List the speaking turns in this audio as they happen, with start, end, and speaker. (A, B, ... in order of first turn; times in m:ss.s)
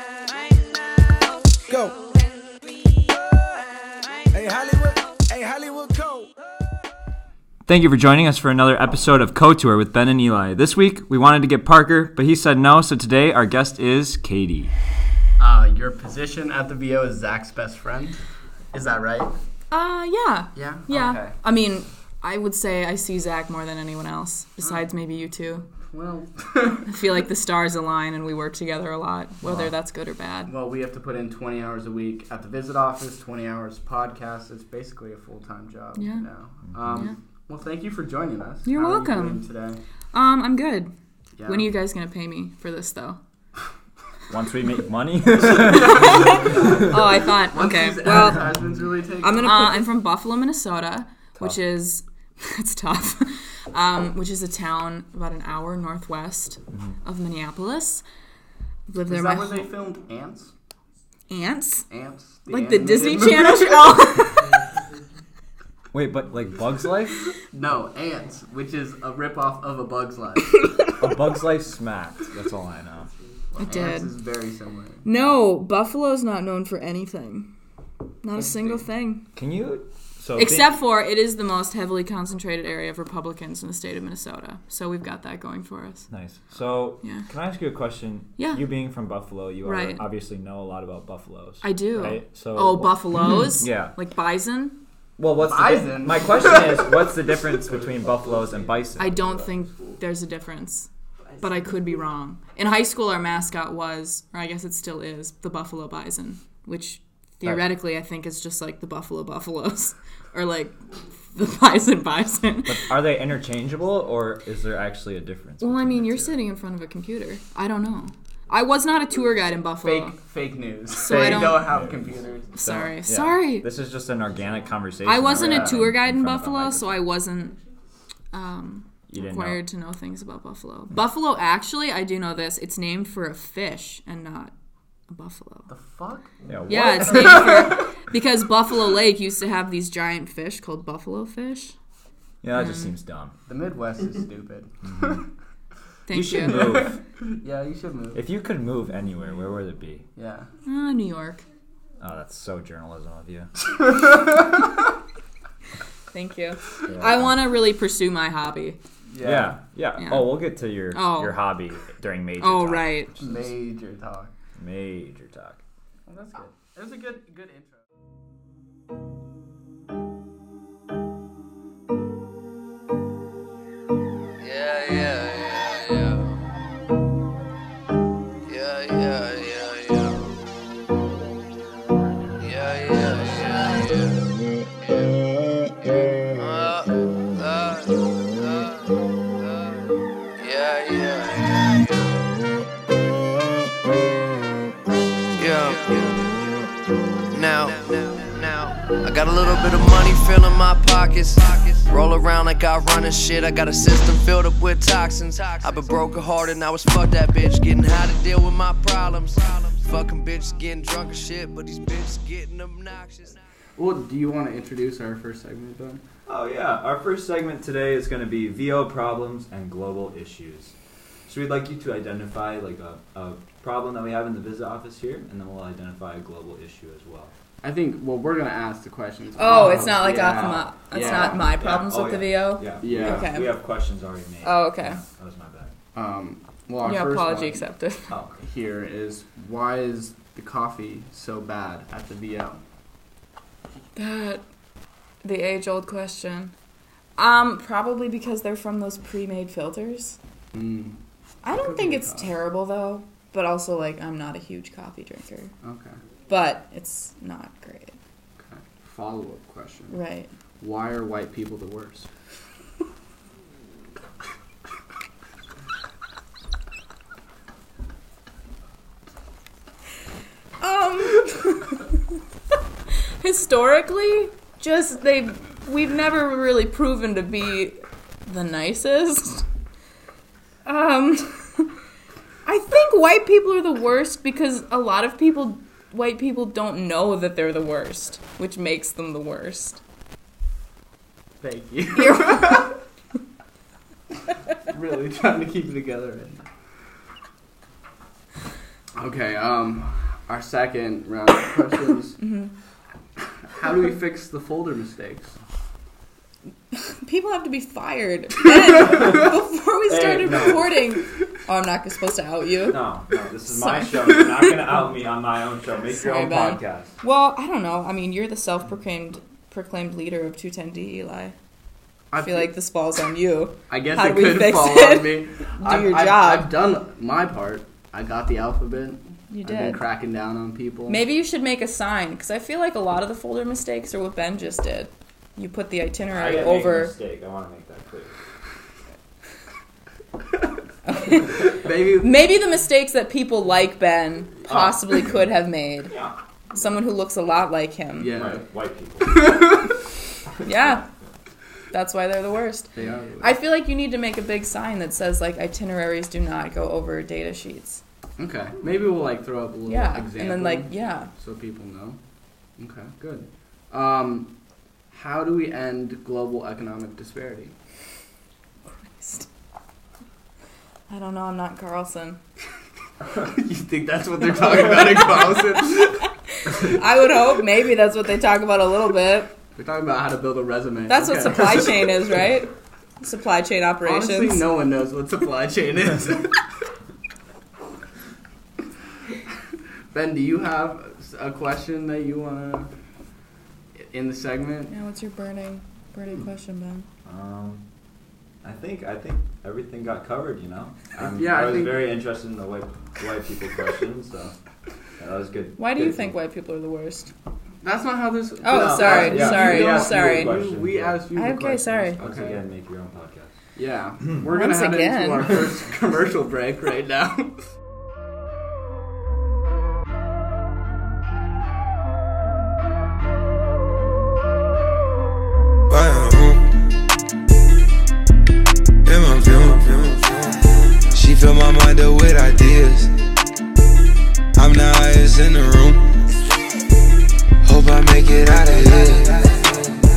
0:01.6-0:02.0 A
0:04.3-0:06.3 A
0:07.7-0:14.7 B
0:15.4-0:18.2 C
0:18.7-0:19.3 C
0:19.7-0:25.7 D
0:20.5-0:21.4 C
0:24.6-0:24.9 C
0:25.8-0:26.9 C
0:26.8-0:30.5 D
0:30.5-0:39.8 C
0:36.0-0:36.3 D
0:38.6-0:39.4 D
0:40.1-0:40.9 D
0:41.4-0:41.7 C
0:41.4-0:43.2 D
0:44.3-0:47.2 B
0:45.4-0:49.9 C
0:45.6-0:48.5 D
0:49.2-0:58.0 D
0:56.7-0:57.0 B
0:58.9-0:59.7 D
0:59.1-1:00.5 C
1:01.3-1:01.9 D
1:01.9-1:03.9 C
1:02.5-1:04.7 D
1:05.9-1:07.2 B
1:07.5-1:10.6 C
1:10.5-1:11.0 D
1:11.0-1:13.1 B
1:13.5-1:15.2 C
1:13.6-1:14.1 D
1:15.0-1:17.5 D
1:18.2-1:19.3 D
1:18.4-1:18.8 C
1:19.3-1:20.8 B
1:20.4-1:26.1 D
1:26.1-1:33.9 B
1:27.0-1:27.3 D
1:28.4-1:28.6 D
1:29.6-1:30.0 D
1:31.6-1:34.8 D
1:35.2-1:39.4 B
1:35.4-1:39.8 C
1:39.0-1:40.9 D
1:41.3-1:41.9 C
1:41.4-1:52.9 D
1:52.6-1:56.4 B
1:55.6-2:00.2 D
1:59.8-2:02.5 C
2:00.9-2:01.7 D
2:01.1-2:07.0 B
2:02.5-2:03.7 D
2:05.0-2:07.6 D
2:05.3-2:05.7 C
2:08.3-2:14.5 D
2:09.1-2:09.6 B
2:15.1-2:15.7 D
2:15.7-2:17.9 C
2:16.5-2:17.7 B
2:16.7-2:21.8 D
2:22.4-2:23.3 B
2:22.5-2:22.9 D
2:23.5-2:25.2 C
2:24.8-2:25.2 B
2:26.1-2:26.9 D
2:26.1-2:27.0 B
2:26.5-2:28.2 C
2:28.1-2:30.0 B
2:30.2-2:30.5 C
2:30.6-2:31.4 D
2:32.0-2:33.5 B
2:33.8-2:34.8 C
2:36.1-2:38.8 D
2:36.9-2:37.3 B
2:39.1-2:39.6 C
2:39.2-2:43.3 B
2:40.0-2:41.4 D
2:42.4-2:43.2 D
2:43.2-2:44.3 C
2:44.6-2:45.6 B
2:46.1-2:47.8 C
2:54.4-2:56.3 E
2:58.5-3:00.2 E
3:02.4-3:04.2 E
3:04.8-3:05.2 E
3:06.3-3:08.9 E
3:09.4-3:09.8 E
3:10.4-3:12.1 E
3:15.4-3:16.2 E
3:17.3-3:33.4 E
3:33.8-3:36.0 C
3:36.3-3:40.7 B
3:41.3-3:47.3 B
3:47.6-3:51.6 C
3:49.4-3:53.6 D
3:49.5-3:55.7 B
3:52.8-3:53.3 C
3:54.4-3:55.0 D
3:55.9-3:57.6 C
3:56.8-3:58.1 D
3:58.1-3:58.4 B
3:58.4-4:02.6 C
4:03.9-4:04.4 D
4:05.2-4:06.5 D
4:07.2-4:10.2 D
4:10.5-4:12.3 C
4:11.4-4:15.5 D
4:15.6-4:16.0 C
4:16.3-4:18.0 D
4:18.4-4:20.0 C
4:19.9-4:20.3 D
4:20.6-4:22.1 C
4:30.6-4:32.0 D
4:33.2-4:39.4 D
4:40.6-4:41.8 D
4:42.4-4:49.8 D
4:51.4-4:52.8 C
4:52.0-4:52.7 D
4:54.5-4:56.4 C
4:59.0-5:02.2 C
5:02.2-5:02.5 D
5:03.5-5:05.4 C
5:06.7-5:14.8 D
5:09.9-5:10.8 B
5:12.6-5:16.9 B
5:15.9-5:21.4 D
5:22.1-5:22.5 C
5:22.2-5:26.5 D
5:23.7-5:31.0 C
5:29.3-5:29.8 D
5:30.9-5:36.9 D
5:36.0-5:38.2 B
5:40.8-5:45.9 D
5:41.4-5:42.1 C
5:44.5-5:44.8 B
5:45.9-5:46.2 B
5:46.5-5:48.2 D
5:48.0-5:48.4 C
5:48.1-5:49.3 B
5:49.0-5:49.8 C
5:50.4-5:50.8 B
5:50.4-5:50.8 D
5:51.7-5:57.8 D
5:52.7-5:53.4 C
5:58.2-6:02.0 C
5:59.6-6:01.1 D
6:02.6-6:04.3 C
6:04.9-6:07.5 C
6:08.6-6:09.3 D
6:10.9-6:12.2 D
6:13.1-6:16.1 C
6:16.3-6:19.3 D
6:19.6-6:21.9 C
6:20.9-6:24.4 D
6:23.8-6:26.4 C
6:29.9-6:32.7 C
6:33.7-6:34.7 C
6:34.7-6:36.9 D
6:37.0-6:37.6 B
6:38.4-6:44.4 B
6:41.0-6:41.9 C
6:45.0-6:46.2 B
6:45.6-6:47.1 D
6:47.6-6:52.4 C
6:48.4-6:50.4 D
6:48.4-6:51.0 B
6:51.1-6:52.0 D
6:52.0-6:53.4 B
6:53.6-6:57.5 C
6:54.2-6:55.6 D
7:05.7-7:06.4 F
7:08.8-7:10.4 F
7:10.9-7:12.9 F
7:14.4-7:15.8 F
7:17.4-7:19.6 F